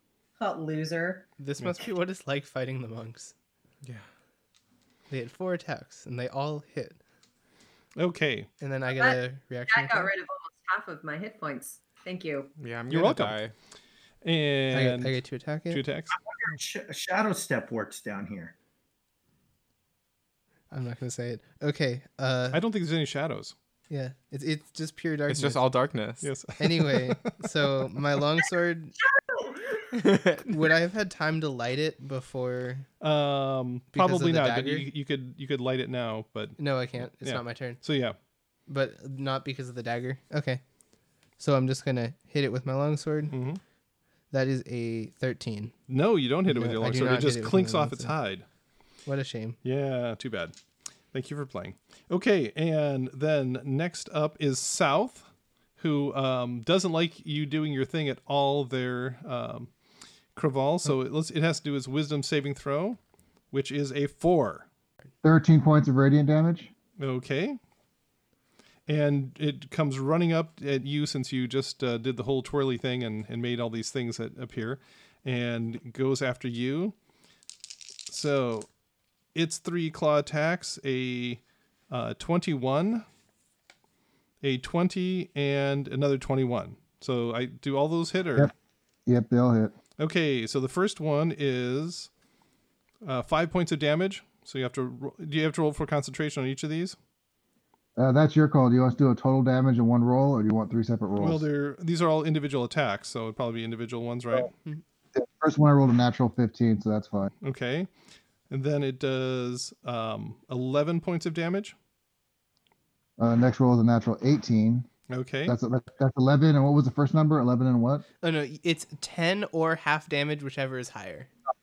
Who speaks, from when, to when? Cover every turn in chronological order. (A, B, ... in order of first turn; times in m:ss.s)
0:00.4-0:01.3 A
0:01.4-0:03.3 B
0:05.1-0:07.0 B
0:08.0-0:08.5 C
0:08.6-0:10.1 B
0:08.9-0:12.5 A
0:12.6-0:13.5 D
0:12.9-0:13.4 C
0:14.2-0:15.2 C
0:14.7-0:15.8 B
0:15.7-0:16.1 C
0:16.1-0:18.5 E
0:20.7-0:22.6 B
0:22.5-0:23.5 C
0:23.9-0:25.7 B
0:25.3-0:26.3 D
0:26.2-0:27.5 C
0:26.6-0:28.9 B
0:30.0-0:30.5 D
0:30.4-0:32.9 B
0:33.0-0:38.2 C
0:33.9-0:34.9 B
0:36.6-0:37.8 B
0:38.7-0:40.6 B
0:41.4-0:43.4 B
0:43.3-0:43.6 C
0:44.3-0:45.7 B
0:45.9-0:48.4 C
0:46.5-0:48.1 B
0:49.1-0:49.6 B
0:49.6-0:50.5 C
0:51.1-0:59.7 C
1:00.4-1:03.0 C
1:03.5-1:04.7 C
1:05.2-1:06.7 F
1:07.0-1:07.6 C
1:08.9-1:17.0 C
1:18.1-1:18.7 C
1:19.4-1:23.0 C
1:24.4-1:28.5 C
1:29.1-1:29.7 F
1:30.0-1:32.1 C
1:33.0-1:37.0 C
1:38.0-1:41.4 F
1:41.2-1:44.5 C
1:45.1-1:47.3 F
1:47.4-1:47.9 C
1:48.5-1:51.8 C
1:53.2-1:54.9 F
1:55.1-1:55.6 C
1:55.5-1:58.0 F
1:58.2-2:01.3 B